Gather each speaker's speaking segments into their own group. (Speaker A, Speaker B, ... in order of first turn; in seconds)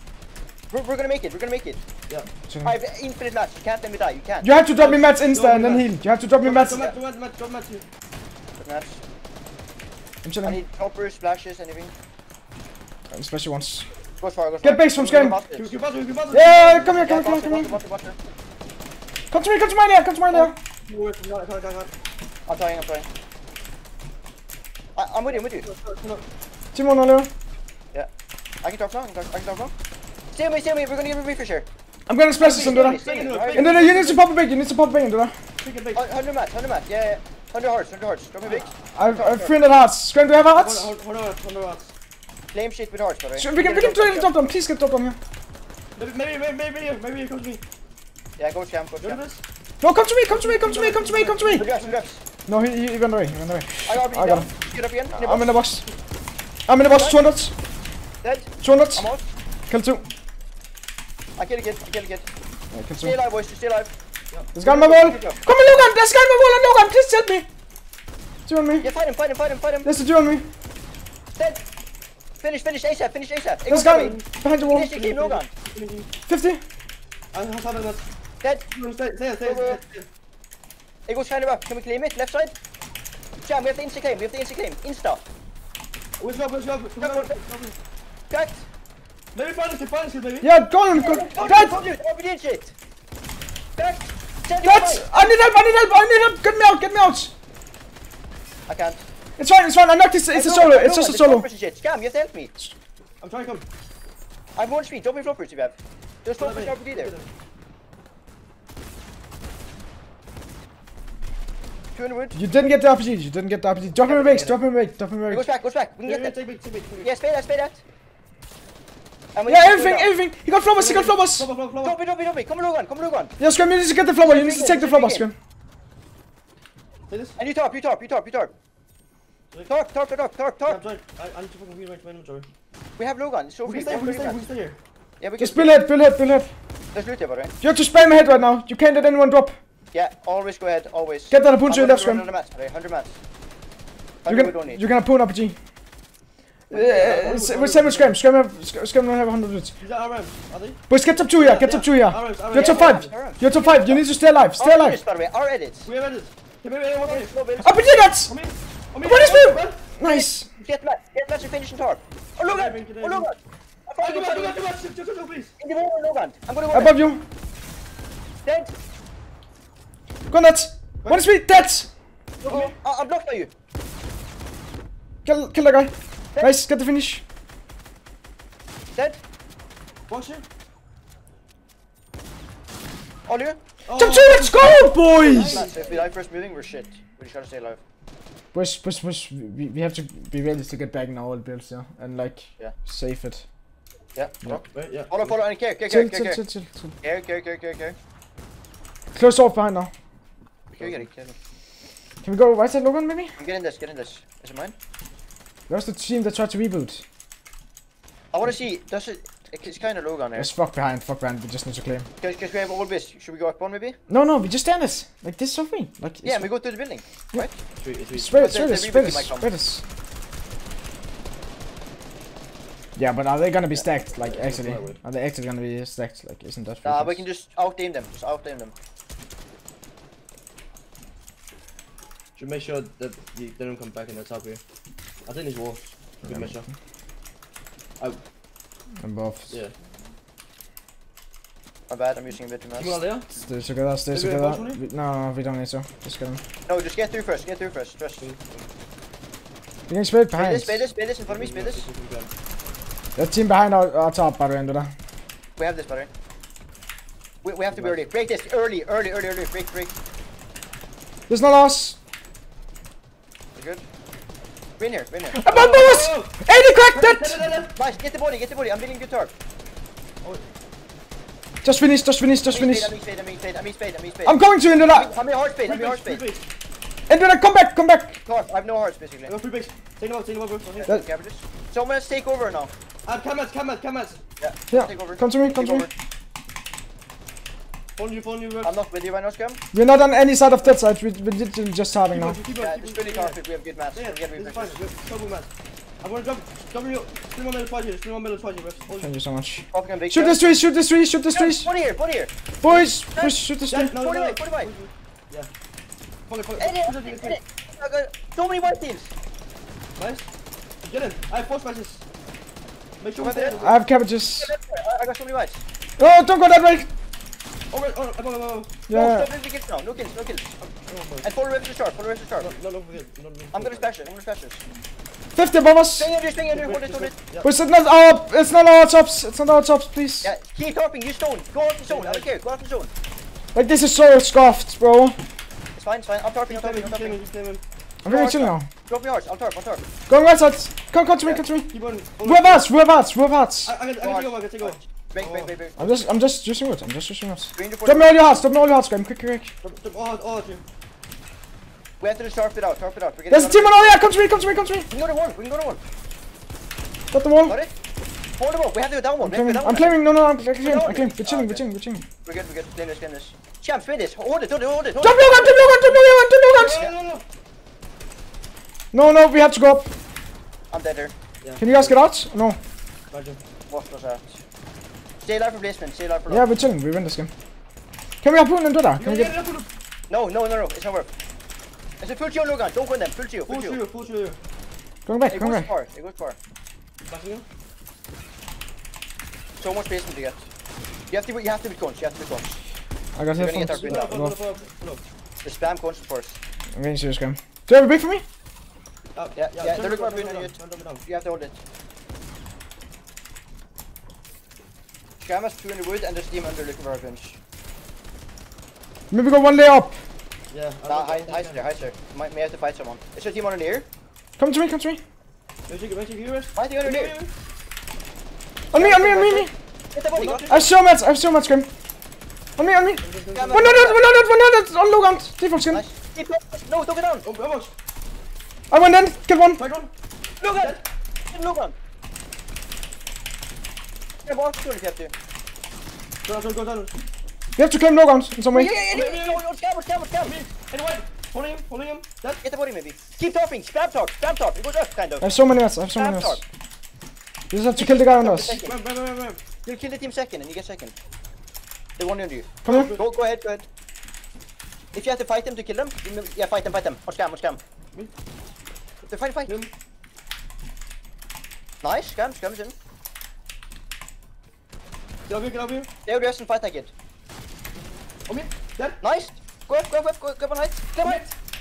Speaker A: 0.7-1.8, 2.6-4.5, 8.6-9.0, 10.4-11.9, 14.2-15.7, 16.8-18.1, 22.5-23.1, 24.9-25.6, 28.6-29.7, 30.3-31.7, 32.5-33.7, 35.9-39.5, 42.5-44.3, 48.4-49.2, 51.5-52.2, 53.9-55.5, 56.8-57.2, 58.2-59.3, 61.4-62.3, 63.0-63.9, 64.6-65.8, 68.8-69.9, 71.3-71.6, 72.4-75.5, 78.4-78.7, 79.4-79.8, 81.1-82.5, 83.5-85.2, 87.0-87.4, 88.3-88.7, 90.9-92.7, 93.8-95.1, 98.7-99.0, 100.3-102.5, 104.5-107.1, 111.9-112.4, 114.0-114.6, 115.3-116.3, 117.0-117.8, 119.3-120.1, 121.8-123.3, 124.2-125.3, 127.4-128.5, 129.7-130.8, 133.0-134.4, 135.2-135.7, 136.9-137.5, 139.9-143.2, 144.2-144.8, 152.5-154.0, 154.6-155.9, 157.1-157.9, 160.0-164.6, 165.6-166.9, 168.4-168.7, 172.4-173.5, 183.3-183.6, 185.4-187.8, 194.2-196.4, 197.0-197.9, 200.8-201.3, 203.4-204.7, 208.3-210.5, 212.2-214.0, 216.2-217.6, 218.3-219.5, 226.8-228.7, 241.9-243.0, 246.7-248.2, 250.3-251.9, 255.6-256.1, 257.4-259.9, 263.6-263.8, 264.8-265.4, 267.8-269.3, 272.5-276.2, 278.2-279.3, 280.8-282.7, 284.4-285.9, 288.6-289.6, 292.6-294.8, 299.7-300.6, 301.3-302.3, 303.9-304.7, 306.6-309.1, 313.1-313.8, 314.4-315.6, 318.9-320.5, 321.2-322.5, 323.5-324.6, 325.9-327.1, 330.2-332.9, 335.8-337.2, 338.1-339.8, 344.0-346.1, 347.5-348.1, 352.0-354.0, 354.9-355.8, 357.4-357.7, 358.4-360.0, 360.6-361.6, 362.2-366.0, 370.7-371.1, 373.7-374.4, 375.2-376.5, 380.1-381.1, 382.0-383.8, 385.3-386.4, 389.6-390.4, 391.1-392.6, 393.4-394.1, 395.4-396.4, 399.3-401.6, 405.2-407.4, 410.9-413.9, 416.5-417.1, 418.7-420.6, 423.3-424.0, 425.7-427.2, 430.4-430.8, 431.3-431.7, 434.2-435.1, 438.5-440.4, 442.4-445.3, 445.9-446.4, 447.8-448.8, 449.6-450.9, 452.0-453.6, 454.9-457.6, 459.1-459.5, 461.8-462.7, 466.1-466.9, 469.0-471.3
Speaker B: 2.5-2.7, 4.4-6.9, 10.2-10.6, 13.1-13.9, 14.6-15.4, 16.3-17.8, 19.3-20.5, 26.7-27.3, 32.1-35.3, 38.9-40.9, 43.3-45.2, 49.8-51.6, 52.5-54.5, 55.2-55.9, 56.7-57.5, 58.6-59.0, 59.7-60.0, 62.7-63.1, 64.5-67.5, 68.5-68.9, 69.8-70.5, 73.7-74.9, 76.3-76.6, 90.4-91.8, 94.6-97.3, 99.4-101.5, 112.3-115.5, 119.5-121.5, 123.4-125.3, 135.4-136.5, 137.6-139.6, 141.3-142.2, 144.2-145.6, 146.7-149.7, 150.9-155.0, 157.6-158.3, 159.0-160.5, 166.7-167.2, 170.3-171.9, 175.2-177.2, 184.0-185.6, 188.5-193.4, 195.8-196.9, 199.1-199.9, 202.2-203.3, 205.7-207.0, 210.3-212.1, 214.1-216.5, 218.1-219.8, 222.9-227.2, 236.2-236.6, 239.0-239.5, 243.3-246.4, 249.9-250.8, 253.2-254.9, 261.3-261.9, 265.3-267.4, 271.6-272.9, 274.2-275.1, 277.1-278.2, 284.7-285.9, 289.7-292.4, 299.0-301.7, 302.6-303.9, 313.5-314.5, 316.0-316.9, 318.9-319.3, 325.3-326.1, 327.4-330.3, 333.5-335.2, 338.0-338.7, 340.1-341.7, 342.2-343.7, 345.8-349.5, 353.3-354.9, 357.1-357.6, 359.2-362.0, 365.0-366.8, 368.9-369.9, 371.6-372.6, 376.3-377.3, 378.2-379.3, 385.1-385.7, 393.1-394.4, 396.8-398.2, 409.1-410.0, 414.4-415.0, 418.7-419.5, 420.5-421.7, 422.6-425.8, 428.7-429.6, 437.6-438.8, 445.2-446.4, 447.5-448.6, 452.6-452.9
Speaker C: 4.7-5.8, 6.4-7.8, 15.5-16.9, 20.3-21.9, 25.3-26.2, 32.4-34.2, 35.6-36.0, 38.4-38.7, 40.5-41.9, 46.0-47.6, 49.0-49.4, 50.3-51.9, 73.9-74.2, 74.8-76.1, 77.3-78.0, 78.7-80.1, 86.2-87.8, 89.3-90.5, 91.3-91.9, 103.2-103.7, 106.4-107.3, 116.0-117.1, 120.8-122.0, 127.1-127.4, 130.7-132.5, 133.6-134.8, 146.7-148.2, 149.8-153.1, 155.8-157.3, 158.3-159.8, 162.4-163.3, 164.0-165.5, 171.0-171.3, 172.4-172.7, 180.1-180.4, 183.8-186.1, 194.7-195.4, 217.8-218.4, 224.2-225.0, 232.3-234.6, 235.2-236.7, 242.8-243.3, 244.1-244.8, 248.2-248.7, 251.2-252.3, 257.7-258.1, 265.5-266.4, 266.9-267.7, 275.6-276.5, 279.3-280.9, 283.1-284.2, 288.0-288.7, 292.1-293.4, 293.9-295.5, 296.0-299.1, 303.7-305.5, 306.3-307.4, 309.9-310.3, 310.8-312.0, 313.0-313.8, 317.7-318.7, 320.6-321.3, 322.4-323.9, 326.5-327.5, 331.9-332.3, 336.5-337.6, 341.7-342.7, 343.6-345.5, 349.6-350.6, 366.5-367.2, 371.4-372.0, 373.1-373.4, 379.0-379.7, 383.5-384.4, 387.1-387.4, 393.7-395.0, 399.1-401.0, 410.5-411.7, 415.7-417.3, 420.1-420.6, 423.0-423.7, 427.2-427.7, 429.6-429.9, 430.5-430.8, 436.2-436.9, 438.9-439.4, 440.2-442.4, 448.5-449.4, 452.6-453.0, 459.4-459.7, 465.2-465.9, 468.3-469.0, 471.0-471.3